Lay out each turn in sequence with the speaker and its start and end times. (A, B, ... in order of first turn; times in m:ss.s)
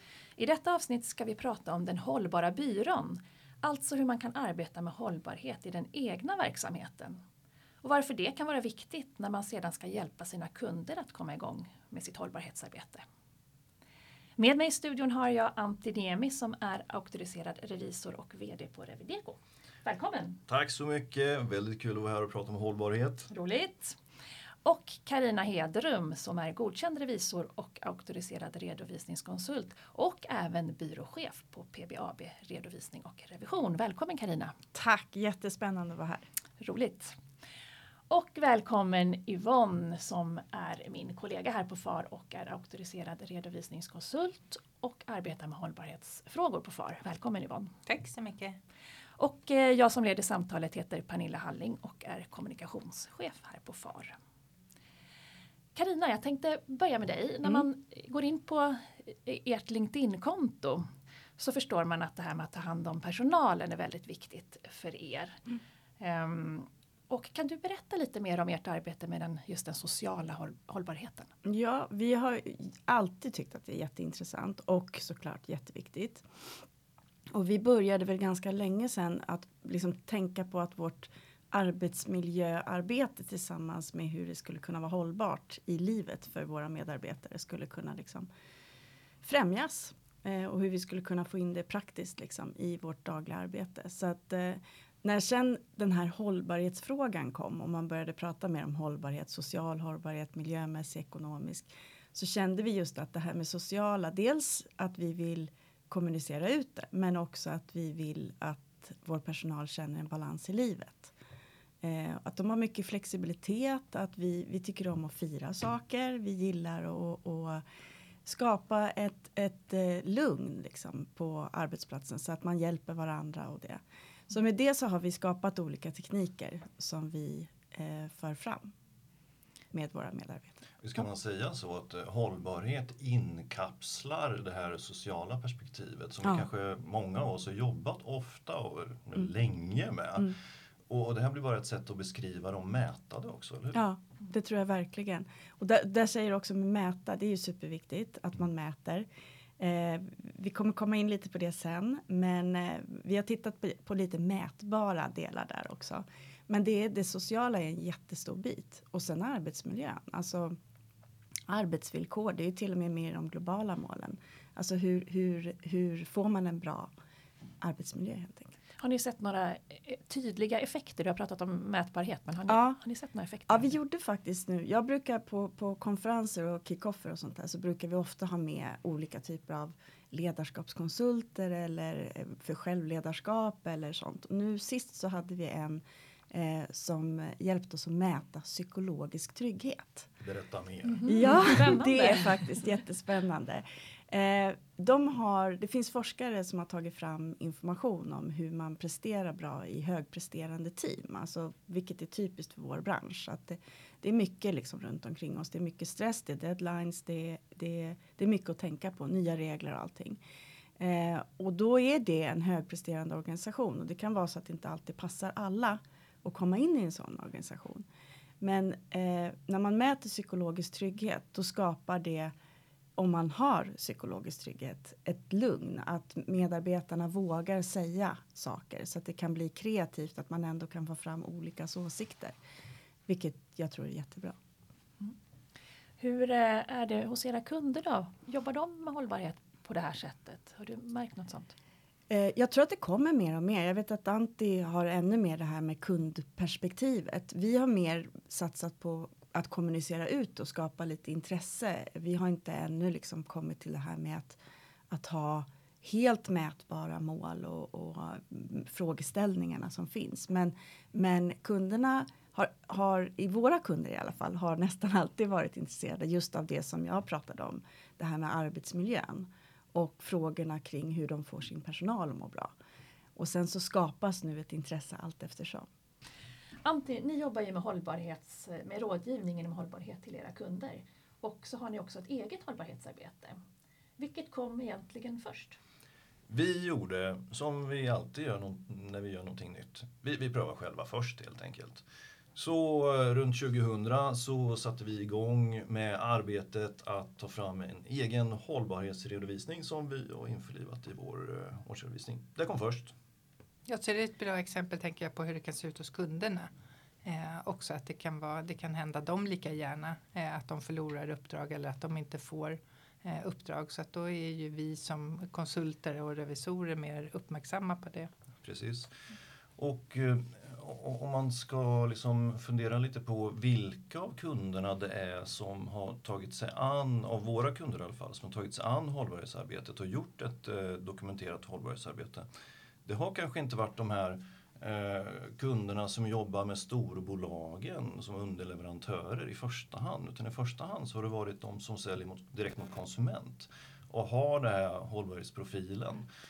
0:00.4-0:07.2 A
0:07.8-0:13.0 A
0:14.4-0:20.4 A
0:20.5-0:23.3 B
0:23.3-0:24.0 A
0:24.6-0:34.5 A
0:34.7-0:36.3 C
0:36.6-0:37.2 A
0:38.1-0:47.7 A
0:47.8-0:48.6 D
0:49.2-0:54.2 A
0:55.7-1:05.4 A
1:06.0-1:11.3 A
1:11.4-1:16.2 C
1:17.3-1:28.3 C
1:29.2-1:51.1 C
1:51.8-1:57.6 C
1:58.2-2:08.7 C
2:09.7-2:10.6 C
2:10.8-2:20.4 B
2:20.9-2:23.8 B
2:23.7-2:29.1 C
2:29.6-2:40.6 C
2:41.5-2:46.9 C
2:47.6-2:48.5 C
2:48.8-2:53.7 A
2:52.5-2:52.8 C
2:53.5-3:10.1 C
3:10.2-3:11.1 B
3:11.0-3:12.4 A
3:11.1-3:30.2 C
3:30.8-3:37.8 C
3:38.4-3:42.3 C
3:43.0-3:52.4 C
3:53.1-3:54.4 C
3:56.0-4:01.5 A
4:02.1-4:14.4 C
4:14.9-4:32.5 C
4:33.2-4:35.7 C
4:36.6-4:43.4 A
4:44.0-4:45.6 A
4:46.3-4:51.8 B
4:52.3-5:02.9 B
5:03.7-5:06.5 D
5:07.0-5:18.1 D
5:18.4-5:18.9 B
5:19.6-5:32.3 B
5:32.8-5:46.1 B